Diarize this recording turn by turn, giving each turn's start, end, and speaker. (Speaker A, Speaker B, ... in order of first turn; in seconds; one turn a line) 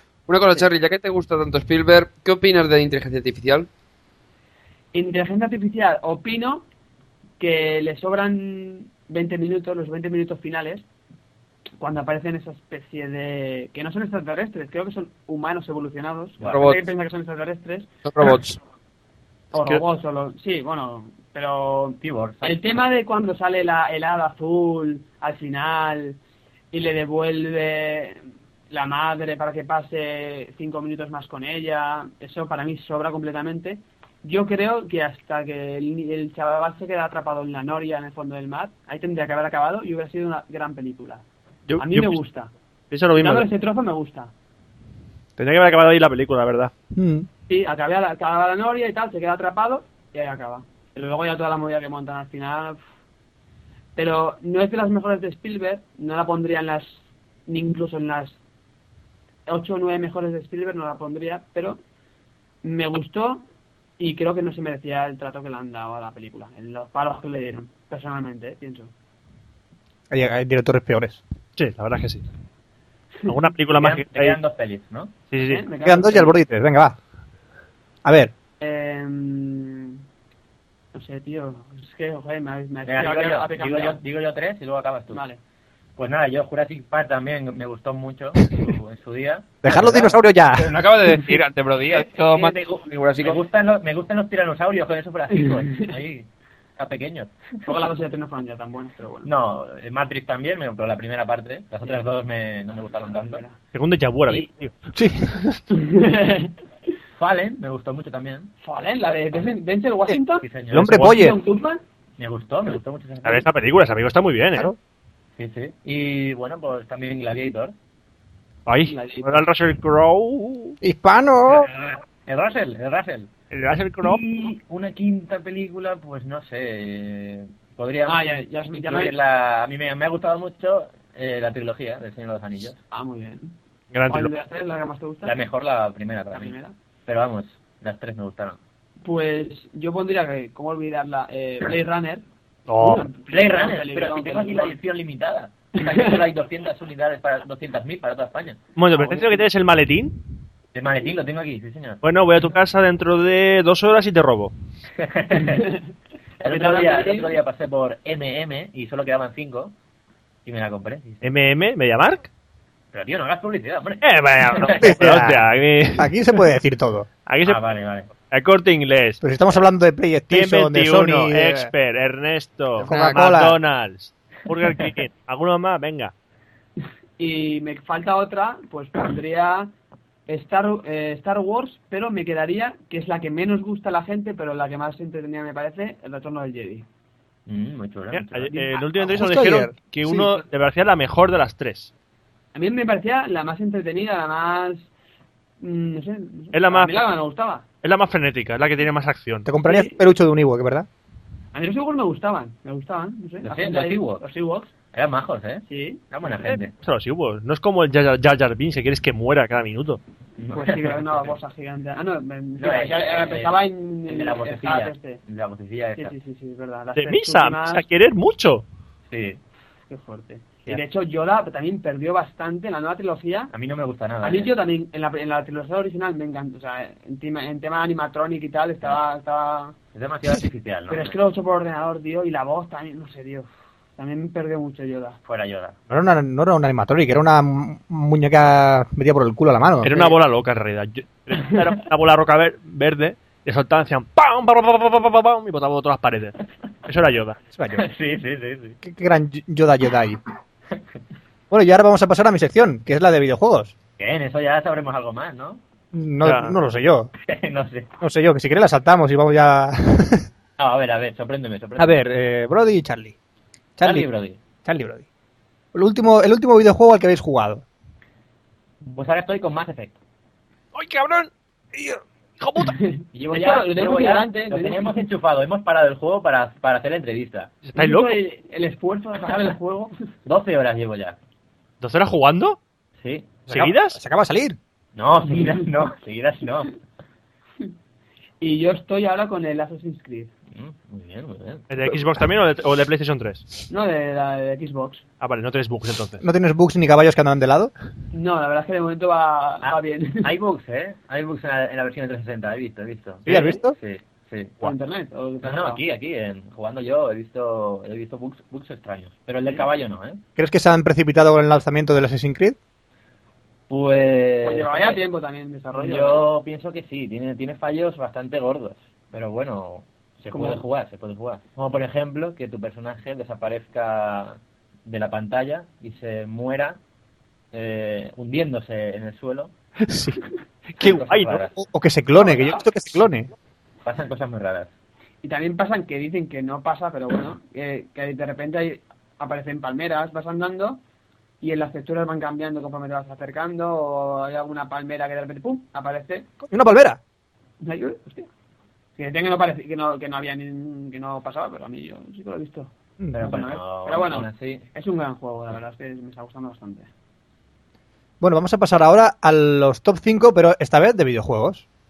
Speaker A: 0.3-3.7
Speaker B: 4.9-6.7
Speaker B: 7.4-10.8
Speaker B: 11.8-17.9
Speaker A: 16.5-16.8
Speaker A: 18.1-18.6
Speaker B: 19.5-26.2
Speaker C: 22.0-22.6
Speaker B: 26.7-41.2
Speaker D: 41.7-42.2
Speaker B: 41.8-42.5
Speaker D: 42.9-43.5
Speaker B: 43.2-44.3
Speaker D: 45.4-46.7
Speaker E: 46.9-47.3
Speaker B: 47.5-52.8
Speaker B: 54.0-58.4
Speaker B: 59.5-61.8
Speaker B: 62.6-63.4
Speaker B: 64.0-68.9
Speaker E: 70.1-71.2
Speaker D: 71.6-72.2
Speaker D: 73.3-74.4
Speaker C: 73.7-75.1
Speaker D: 75.3-75.6
Speaker B: 75.4-76.4
Speaker E: 75.8-77.0
Speaker E: 78.0-78.3
Speaker B: 78.6-80.0
Speaker B: 80.9-84.0
Speaker C: 82.8-85.2
Speaker B: 85.1-85.4
Speaker C: 86.0-90.2
Speaker E: 89.6-90.8
Speaker A: 90.5-93.4
Speaker C: 91.9-97.3
Speaker B: 97.6-99.3
Speaker C: 99.2-103.4
Speaker B: 103.2-103.5
Speaker D: 103.7-104.7
Speaker E: 104.9-105.4
Speaker B: 105.7-106.5
Speaker C: 107.2-108.5
Speaker B: 108.6-111.8
Speaker C: 110.4-111.1
Speaker E: 110.7-111.4
Speaker C: 112.2-113.5
Speaker D: 113.2-114.7
Speaker C: 115.4-117.7
Speaker D: 118.7-120.8
Speaker B: 118.9-119.5
Speaker E: 120.8-121.7
Speaker C: 121.5-123.3
Speaker D: 123.5-124.2
Speaker C: 124.0-132.8
Speaker B: 128.1-129.1
Speaker B: 132.9-133.5
Speaker D: 133.9-134.3
Speaker B: 134.1-135.3
Speaker C: 135.2-136.5
Speaker B: 136.3-136.7
Speaker C: 137.1-138.6
Speaker B: 139.0-142.2
Speaker D: 142.7-143.1
Speaker B: 142.7-144.8
Speaker C: 143.3-148.6
Speaker B: 145.8-146.2
Speaker D: 148.8-150.2
Speaker B: 148.9-149.4
Speaker C: 150.7-152.0
Speaker D: 152.0-154.5
Speaker C: 155.0-155.7
Speaker B: 155.4-155.8
Speaker C: 156.4-159.7
Speaker B: 156.4-157.4
Speaker C: 160.4-161.3
Speaker D: 161.2-162.3
Speaker C: 162.9-165.2
Speaker D: 164.0-166.4
Speaker E: 164.8-165.4
Speaker E: 165.9-167.1
Speaker D: 167.3-167.6
Speaker C: 167.4-168.1
Speaker D: 168.3-169.2
Speaker E: 169.2-171.7
Speaker D: 170.3-176.1
Speaker A: 172.8-173.2
Speaker E: 172.9-173.6
Speaker B: 177.2-179.7
Speaker B: 180.3-186.9
Speaker C: 187.4-188.5
Speaker D: 188.1-191.9
Speaker B: 188.5-188.8
Speaker E: 189.0-190.4
Speaker B: 192.5-194.9
Speaker B: 195.6-197.6
Speaker D: 196.5-197.0
Speaker D: 197.8-199.5
Speaker E: 199.4-200.9
Speaker B: 199.6-200.0
Speaker B: 201.5-204.7
Speaker C: 203.4-204.2
Speaker C: 204.9-206.7
Speaker B: 205.7-206.0
Speaker D: 206.4-210.0
Speaker C: 210.4-211.3
Speaker B: 210.5-215.2
Speaker C: 212.6-216.1
Speaker B: 215.9-217.8
Speaker D: 216.9-218.7
Speaker C: 219.1-219.4
Speaker B: 219.9-223.5
Speaker C: 223.5-224.5
Speaker B: 224.2-229.7
Speaker C: 229.9-231.2
Speaker B: 230.9-235.2
Speaker C: 235.2-235.8
Speaker E: 235.9-240.0
Speaker D: 239.8-247.4
Speaker E: 247.6-247.8
Speaker C: 247.7-248.8
Speaker E: 248.8-250.2
Speaker E: 251.5-253.7
Speaker C: 254.0-255.6
Speaker E: 255.9-257.1
Speaker D: 256.2-256.6
Speaker C: 257.2-257.9
Speaker E: 258.0-260.3
Speaker C: 260.6-262.0
Speaker E: 261.8-263.1
Speaker E: 263.8-264.1
Speaker C: 263.8-264.4
Speaker E: 264.6-265.0
Speaker E: 265.7-267.6
Speaker C: 268.8-270.0
Speaker D: 270.7-272.7
Speaker B: 272.6-275.0
Speaker C: 273.1-277.5
Speaker D: 277.6-278.2
Speaker B: 277.7-279.9
Speaker C: 280.2-281.2
Speaker D: 281.8-282.6
Speaker C: 283.0-283.4
Speaker D: 283.5-284.0
Speaker E: 283.5-284.6
Speaker C: 284.9-286.8
Speaker B: 288.4-290.3
Speaker C: 290.5-291.6
Speaker D: 291.7-293.5
Speaker B: 293.7-295.0
Speaker D: 295.2-296.2
Speaker E: 296.2-297.7
Speaker B: 298.1-300.3
Speaker C: 299.6-304.7
Speaker E: 303.2-303.7
Speaker B: 304.6-305.8
Speaker C: 305.4-310.2
Speaker E: 310.4-312.6
Speaker C: 313.7-315.0
Speaker B: 314.4-316.2
Speaker C: 315.7-326.8
Speaker B: 320.3-320.6
Speaker C: 327.5-329.5
Speaker E: 329.9-330.2
Speaker D: 330.8-331.4
Speaker C: 330.8-331.5
Speaker E: 331.6-333.3
Speaker C: 333.8-334.7
Speaker B: 335.2-340.8
Speaker B: 341.4-346.3
Speaker E: 346.4-347.0
Speaker B: 347.6-348.3
Speaker B: 349.0-356.9
Speaker C: 353.1-354.6
Speaker E: 358.2-361.6